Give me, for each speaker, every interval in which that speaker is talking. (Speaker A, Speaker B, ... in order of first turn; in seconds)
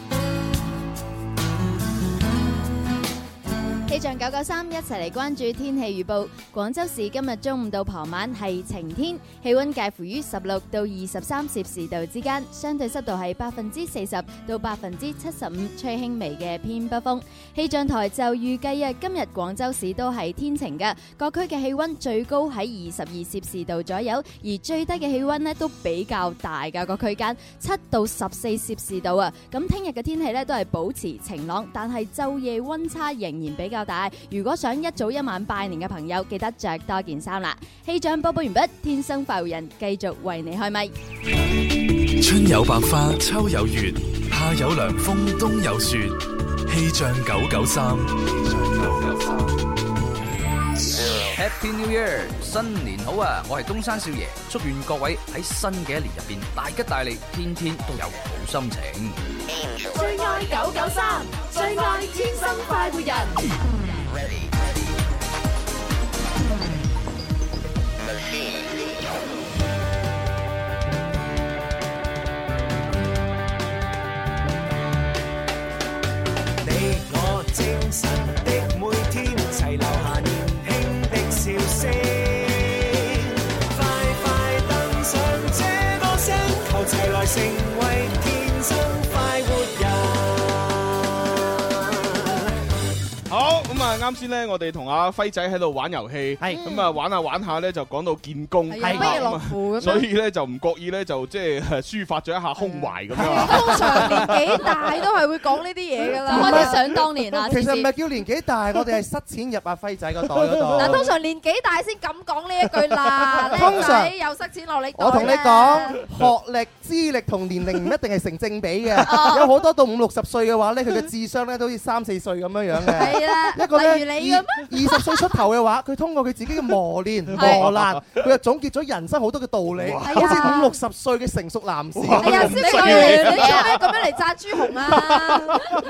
Speaker A: 3.9-40.9, 96.6-96.8, 106.3-107.9, 119.0-119.5, 127.4-127.6, 133.2-133.7
Speaker B: 42.0-49.4
Speaker C: 51.3-59.2
Speaker D: 59.9-63.4
Speaker E: 76.6-91.0
Speaker F: 93.3-104.4, 127.3-128.2, 129.8-130.6, 131.9-134.0, 134.8-135.6
Speaker G: 98.7-100.1, 102.6-106.8, 110.8-116.0, 122.9-125.3, 130.0-130.7, 132.2-135.7
Speaker H: 98.8-99.2, 103.1-104.3, 106.3-111.1, 113.2-114.1, 115.0-133.4